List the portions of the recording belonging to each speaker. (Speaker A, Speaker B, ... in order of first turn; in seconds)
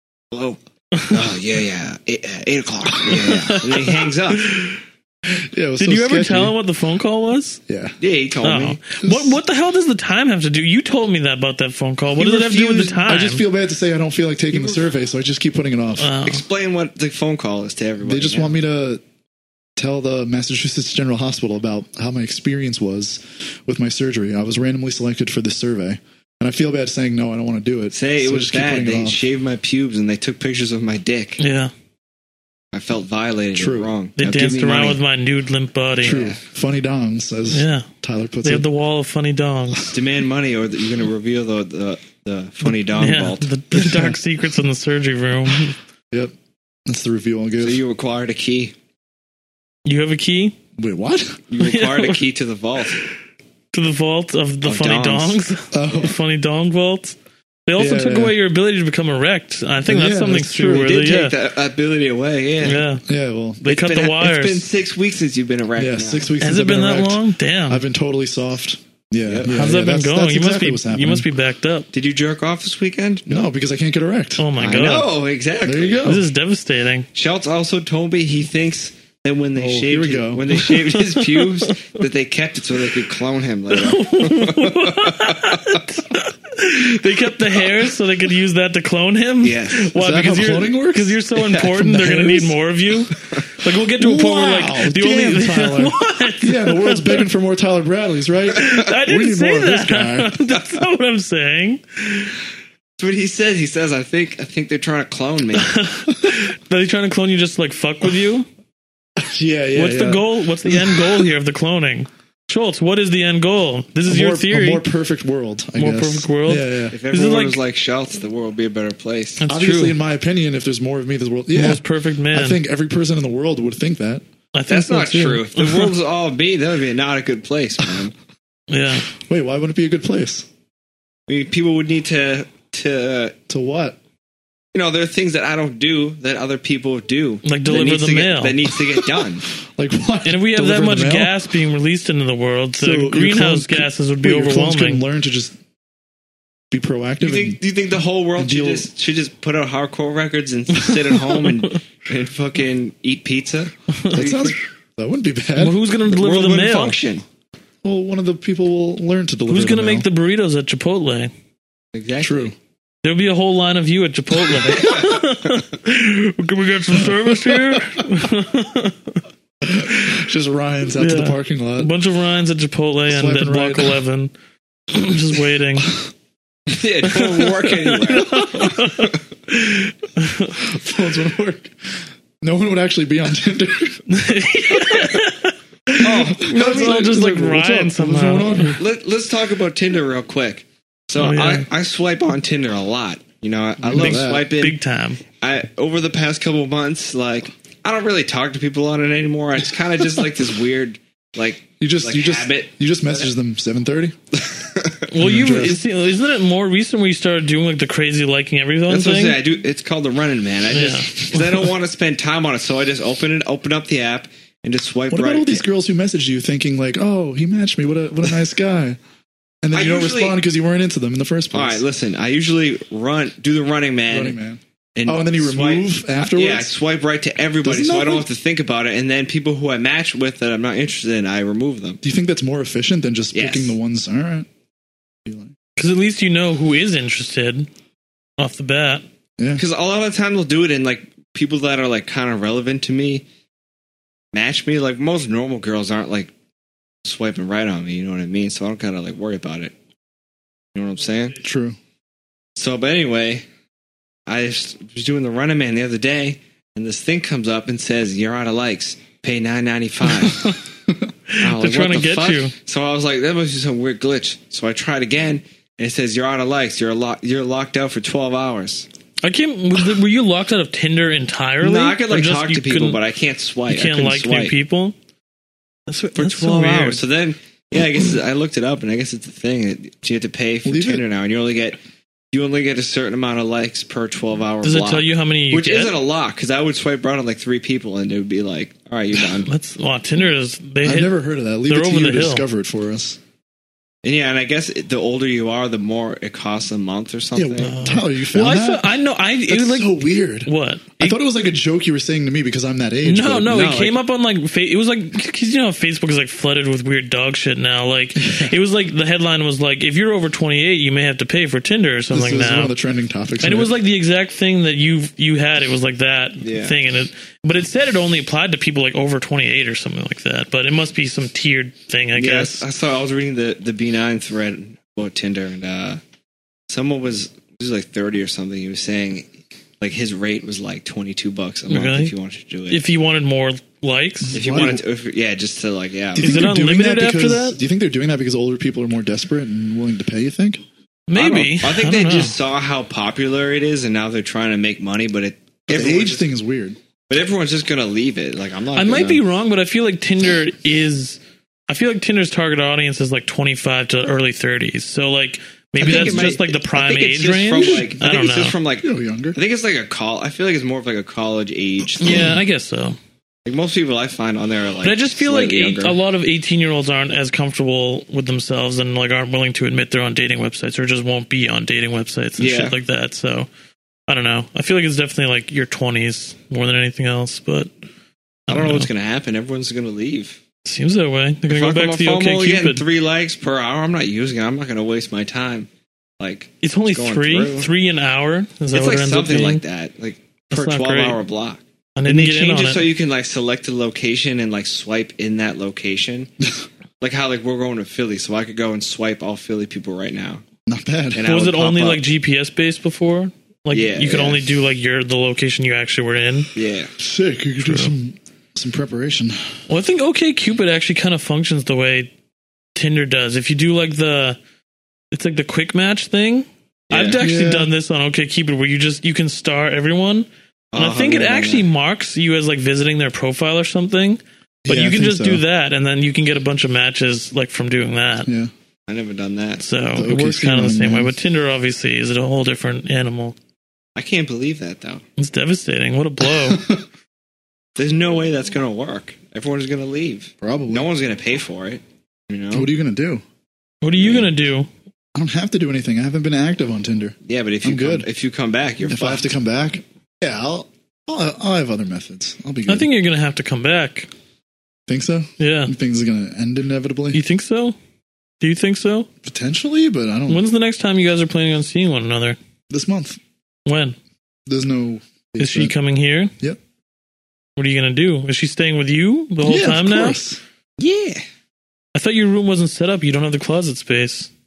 Speaker A: 0.3-4.5, 8.0-8.8, 12.2-13.0, 16.2-18.6, 27.9-31.4, 32.7-35.0, 36.0-36.4, 39.9-43.5, 47.6-48.7, 51.5-53.0, 54.6-55.4, 60.7-62.9, 63.7-66.3, 69.2-69.6, 71.9-73.5, 74.6-76.1, 77.1-85.8, 89.4-89.9, 103.0-105.8, 116.9-119.4, 124.7-128.2, 131.3-133.4, 134.7-139.5, 147.2-154.6, 156.1-157.2, 161.9-162.5, 164.6-165.2, 176.7-179.1, 186.0-187.2, 188.8-194.8, 195.4-203.3, 204.3-205.1, 208.9-215.6, 219.7-220.4, 221.5-224.4, 225.0-232.0, 233.3-233.8, 239.6-243.2, 244.3-246.3, 247.0-249.7, 250.8-251.4, 252.6-253.4, 254.3-260.6, 261.4-268.9, 271.6-274.5, 276.1-281.8, 282.3-289.5, 294.0-297.8, 303.5-304.0, 316.4-316.8, 322.1-326.0, 326.7-332.8, 334.3-336.5, 341.1-346.3, 347.1-349.2, 355.8-362.3, 363.5-366.0, 372.4-372.8, 378.5-380.4, 381.5-385.7, 386.2-387.7, 388.7-396.3, 397.0-400.4, 401.1-402.0, 403.7-404.5, 406.6-406.9, 416.9-417.2, 420.7-421.7, 428.9-429.6, 434.0-435.0, 437.8-442.7, 443.9-444.3, 447.3-449.3, 470.8-471.2
Speaker B: 3.1-4.8, 5.8-7.6, 8.4-13.4, 16.0-16.4, 31.4-31.7, 34.2-36.2, 37.5-37.9, 38.4-40.0, 42.9-45.8, 49.9-50.6, 51.6-52.2, 53.7-57.2, 57.7-61.4, 62.6-63.0, 63.6-64.7, 66.4-67.8, 69.5-71.9, 74.4-75.1, 76.0-77.1, 80.5-81.9, 83.7-97.3, 98.5-102.3, 105.7-108.5, 109.8-114.8, 115.8-117.6, 119.4-120.0, 121.5-122.6, 124.5-125.9, 128.7-129.1, 137.4-138.6, 140.2-145.0, 150.9-151.7, 153.9-154.2, 155.6-157.0, 159.5-161.3, 163.0-169.2, 171.0-174.3, 174.9-176.0, 177.1-180.6, 184.1-188.8, 191.2-191.7, 193.9-195.2, 205.1-209.4, 210.7-211.7, 235.8-237.7, 238.4-239.0, 260.1-260.6, 261.3-262.5, 269.2-273.0, 273.7-275.0, 275.9-277.0, 284.6-285.9, 289.4-292.4, 297.6-301.2, 303.0-312.7, 313.4-322.6, 331.7-332.1, 332.7-334.4, 336.2-337.6, 341.1-342.4, 348.8-358.6, 362.0-363.0, 364.8-373.5, 374.1-377.7, 378.5-378.9, 380.6-382.9, 386.6-389.6, 390.5-391.2, 392.0-392.9, 401.2-406.5, 407.6-407.9, 409.7-412.1, 412.8-414.4, 415.1-428.3, 429.6-433.4, 435.2-436.6, 443.8-444.7, 452.7-454.1, 455.4-455.7, 457.1-457.8, 458.4-459.1, 460.3-462.4, 463.7-464.0, 465.4-466.3, 467.6-470.2, 471.9-474.3
Speaker C: 5.3-6.5, 7.7-8.0, 9.0-9.4, 13.0-16.1, 18.0-19.0, 19.8-29.2, 33.6-33.9, 36.0-38.7, 43.7-44.2, 46.9-47.8, 50.8-51.4, 55.7-56.1, 57.8-58.4, 59.9-60.9, 63.1-63.6, 65.8-71.3, 73.3-74.5, 75.6-76.2, 79.6-80.5, 90.0-92.6, 94.0-100.4, 109.2-111.2, 114.1-117.0, 119.5-124.2, 129.2-130.5, 133.5-134.0, 139.7-141.3, 142.8-145.6, 146.7-147.6, 148.4-148.9, 154.1-155.8, 157.8-160.1, 162.2-162.5, 167.0-168.0, 169.6-171.9, 173.1-174.0, 180.6-184.0, 186.1-188.8, 193.8-194.5, 201.8-204.2, 205.2-205.8, 215.1-219.0, 219.6-221.8, 224.1-226.7, 227.6-228.3, 232.0-234.5, 235.2-235.5, 239.4-239.6, 251.4-251.8, 280.6-281.0, 290.8-293.2, 297.4-299.0, 299.5-303.6, 308.2-308.5, 312.1-313.7, 334.2-334.8, 336.1-340.6, 345.7-346.8, 355.8-356.3, 357.6-357.9, 358.8-359.4, 362.1-362.4, 400.7-401.2, 407.0-409.5, 417.2-417.7, 424.6-425.4, 428.3-428.5, 430.0-431.1, 436.2-436.9, 440.4-440.9, 442.5-443.2, 445.1-448.1, 448.9-452.9, 454.9-457.2, 459.2-460.4, 462.7-463.2, 464.5-465.7, 469.4-470.4